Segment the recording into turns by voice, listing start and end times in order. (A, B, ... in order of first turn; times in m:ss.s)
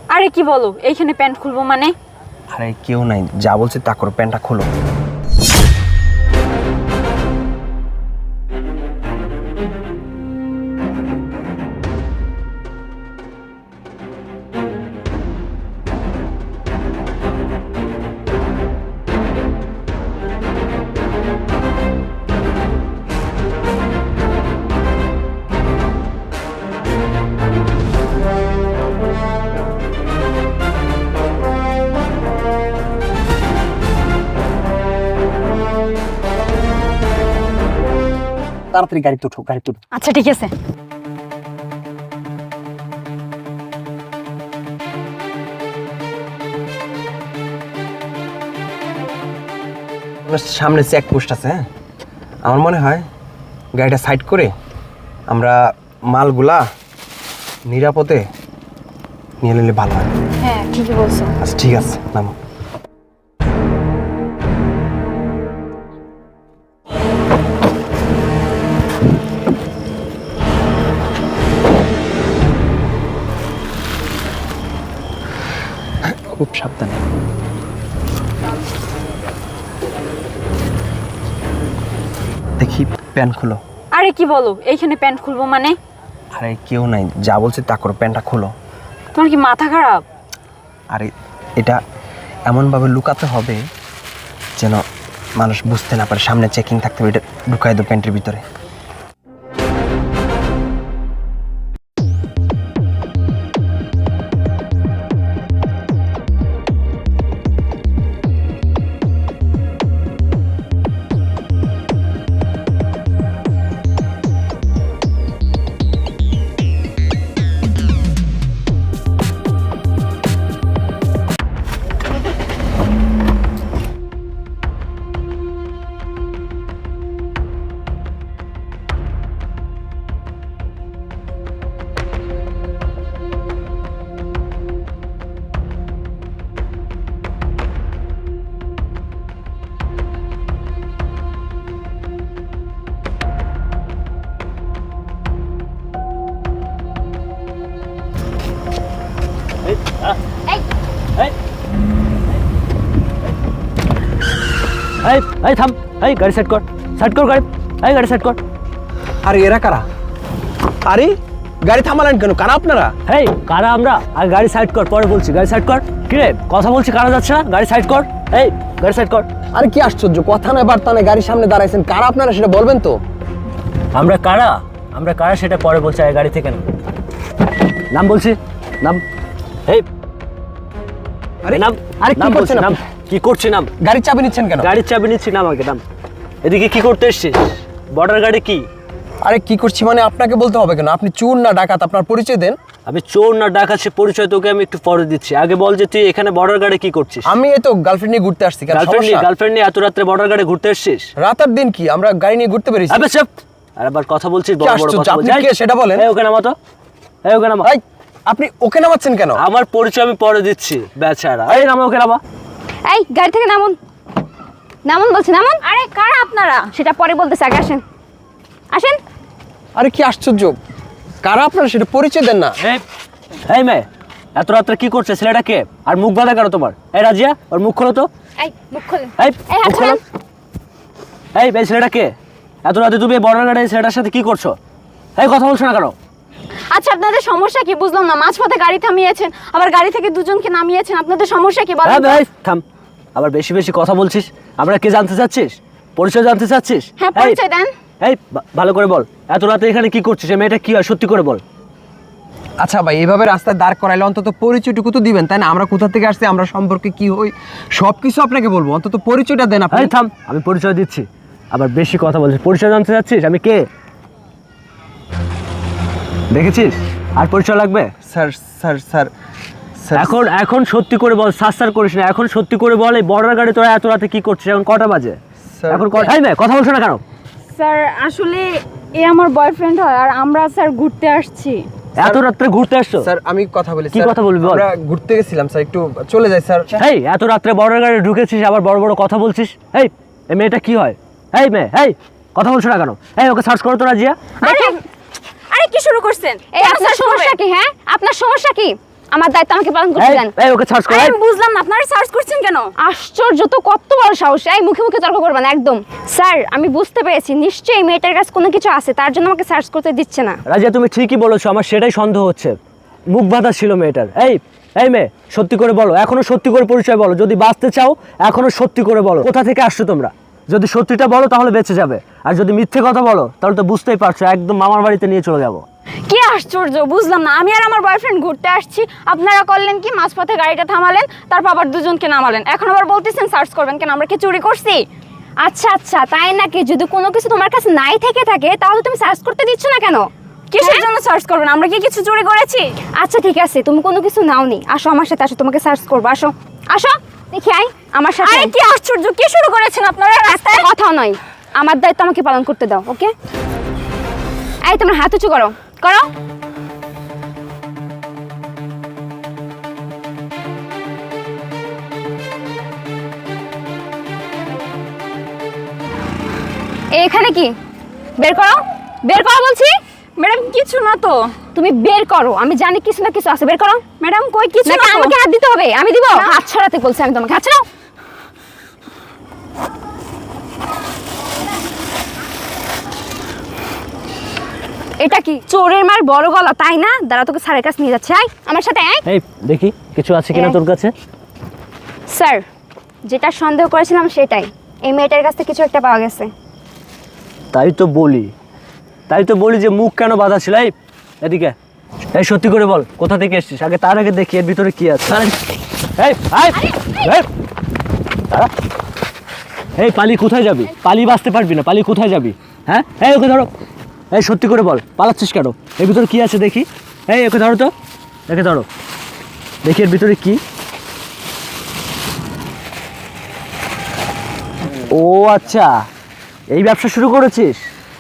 0:00.1-0:01.9 A
0:02.5-0:04.7 B
0:38.7-0:39.8 B
0:39.9-0:40.5 A
0:50.3-0:51.7 B
0:52.4-0:53.1 B
0:53.7-0:54.5 B
0:55.3-0:55.6 B
0:56.1-0:56.6 B
0:57.7-0:58.2 B
0:59.4-1:00.2 B
1:00.4-1:01.4 A
1:01.4-1:02.3 B
1:16.2-1:17.0 B
1:22.6-1:23.6 B
1:23.9-1:25.8 A
1:26.3-1:28.5 B
1:29.1-1:30.0 A
1:30.9-1:31.8 B
1:32.5-1:33.6 B
1:34.6-1:34.8 B
1:35.4-1:38.4 B
2:35.0-2:38.4 C
2:39.2-2:39.9 B
2:40.8-2:43.0 B
2:43.1-2:49.3 C
2:49.5-2:53.0 B
2:53.9-2:56.7 C
2:57.9-2:59.0 C
3:01.4-3:02.8 B
3:01.5-3:03.7 C
3:03.8-3:04.7 B
3:04.6-3:05.8 C
3:06.4-3:08.7 C
3:09.2-3:12.6 B
3:12.9-3:17.3 C
3:17.2-3:19.3 B
3:18.7-3:21.1 C
3:21.2-3:23.1 B
3:22.9-3:26.6 C
3:24.6-3:26.1 B
3:27.2-3:27.7 C
3:27.6-3:29.4 B
3:29.4-3:32.2 C
3:32.9-3:33.8 D
3:34.8-3:35.6 D
3:35.6-3:36.7 A
3:36.7-3:37.8 D
3:38.7-3:39.0 D
3:39.8-3:40.6 B
3:41.2-3:42.6 B
3:43.5-3:48.1 C
3:48.4-3:50.0 D
3:49.2-3:50.0 C
3:51.3-3:54.6 C
3:55.2-3:56.0 C
3:56.7-4:02.2 A
4:01.8-4:02.6 C
4:03.2-4:07.4 C
4:07.0-4:07.7 A
4:08.0-4:11.4 C
4:12.6-4:19.9 B
4:19.7-4:23.7 C
4:26.3-4:27.9 C
4:28.1-4:29.1 B
4:29.8-4:30.2 B
4:30.0-4:35.2 C
4:35.5-4:36.1 B
4:35.7-4:37.0 C
4:37.5-4:41.6 A
4:42.0-4:43.1 C
4:43.0-4:46.9 B
4:43.9-4:44.7 C
4:46.8-4:54.3 C
4:54.4-4:54.8 D
4:54.4-4:54.8 A
4:55.5-4:57.4 A
4:56.5-5:00.3 D
5:00.0-5:01.2 C
5:00.9-5:02.7 A
5:02.8-5:10.4 D
5:10.5-5:12.6 C
5:13.1-5:25.6 C
5:26.1-5:34.8 A
5:35.4-5:40.1 D
5:40.5-5:42.8 A
5:40.6-5:40.9 D
5:43.0-5:48.5 D
5:48.2-5:50.7 A
5:50.3-5:53.1 D
5:54.6-5:56.1 D
6:06.9-6:07.6 D
6:08.2-6:09.8 D
6:10.2-6:11.4 A
6:11.6-6:13.8 D
6:14.0-6:15.2 A
6:14.6-6:17.6 D
6:25.0-6:29.0 D
6:29.1-6:30.9 C
6:32.1-6:32.4 D
6:33.1-6:36.3 D
6:37.5-6:38.3 C
6:39.1-6:41.6 C
6:42.1-6:45.4 C
6:46.0-6:47.3 C
6:49.8-6:53.5 C
6:54.1-6:57.7 C
6:58.3-6:58.7 C
6:59.6-7:00.4 C
7:04.9-7:05.8 C
7:06.5-7:07.6 C